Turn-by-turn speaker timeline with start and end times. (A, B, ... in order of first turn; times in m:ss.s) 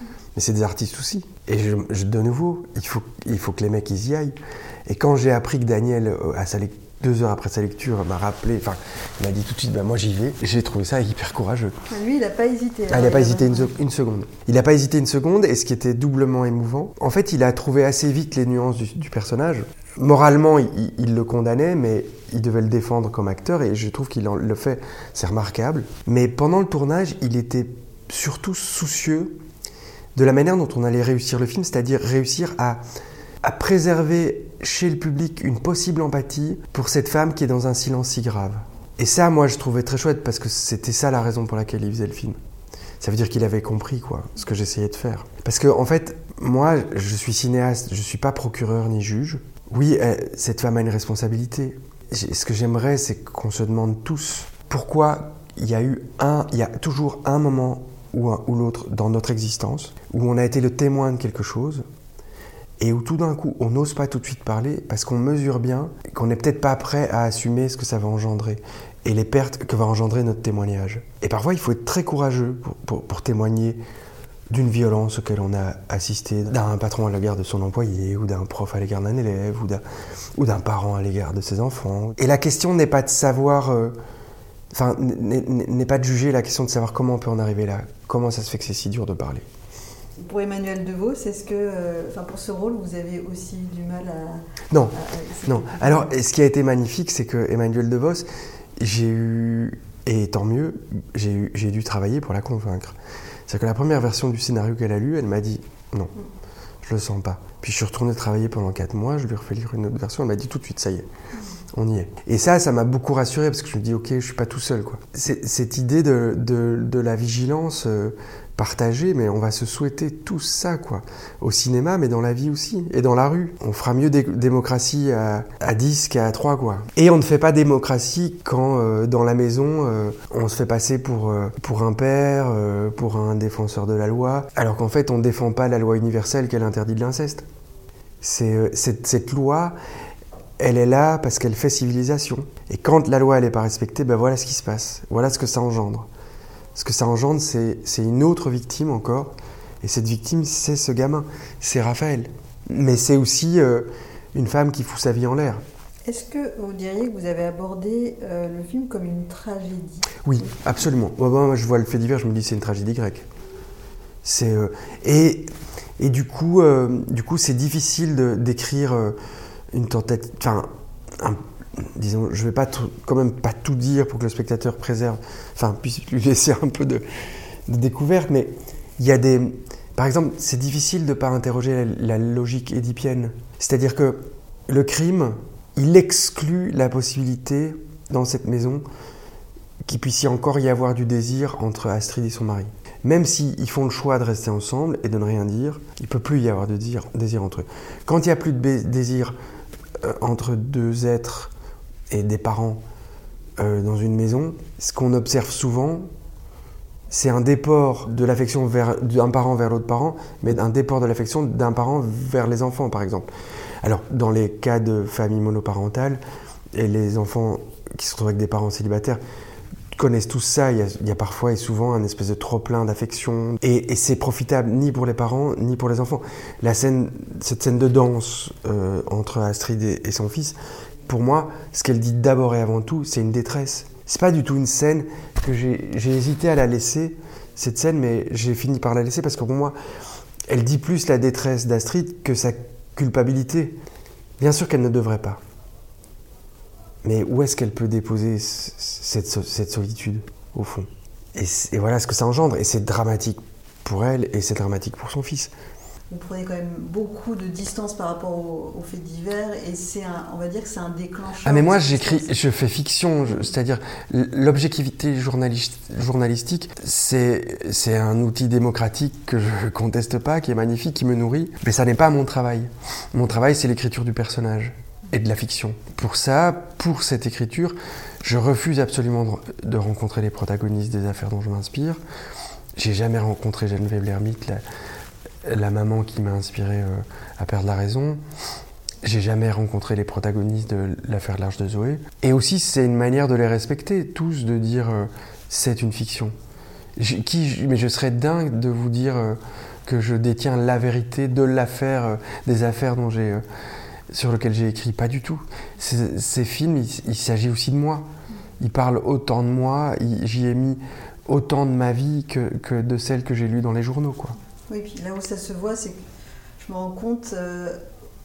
0:00.4-0:04.3 A
0:04.9-0:11.7 A
0:11.9-0:13.7 B
0:12.9-0:29.4 A
0:30.2-0:32.8 A
0:33.4-0:42.4 A
0:43.0-1:01.8 A
1:02.8-1:13.8 A
1:14.5-1:19.8 A
1:20.4-1:24.0 A
1:24.7-1:29.4 A
1:30.2-1:34.4 B
1:34.7-1:38.3 A
1:34.9-1:36.1 B
1:38.8-1:42.9 A
1:43.5-1:46.1 A
1:46.8-1:51.1 A
1:51.7-2:17.4 A
2:18.2-2:19.8 A
2:20.6-2:26.1 A
2:26.8-2:35.6 A
2:36.0-2:40.2 B
2:40.2-2:43.2 A
2:44.2-2:49.2 A
2:49.7-2:50.7 A
2:51.2-2:57.0 A
2:57.7-3:08.8 A
3:09.8-3:19.3 A
3:20.0-3:21.5 A
3:22.1-3:22.8 A
3:23.6-3:26.0 A
3:27.1-3:33.3 A
3:33.8-3:36.2 A
3:36.7-3:39.2 A
3:39.9-3:59.8 A
4:00.5-4:03.8 A
4:04.4-4:05.4 A
4:07.0-4:15.5 A
4:16.1-4:22.4 B
4:21.4-4:42.0 A
4:42.8-4:44.6 A
4:45.4-4:48.2 A
4:49.0-4:56.3 A
4:57.0-5:03.4 A
5:04.1-5:08.0 A
5:08.6-5:14.3 A
5:14.7-5:16.0 B
5:16.6-5:17.8 B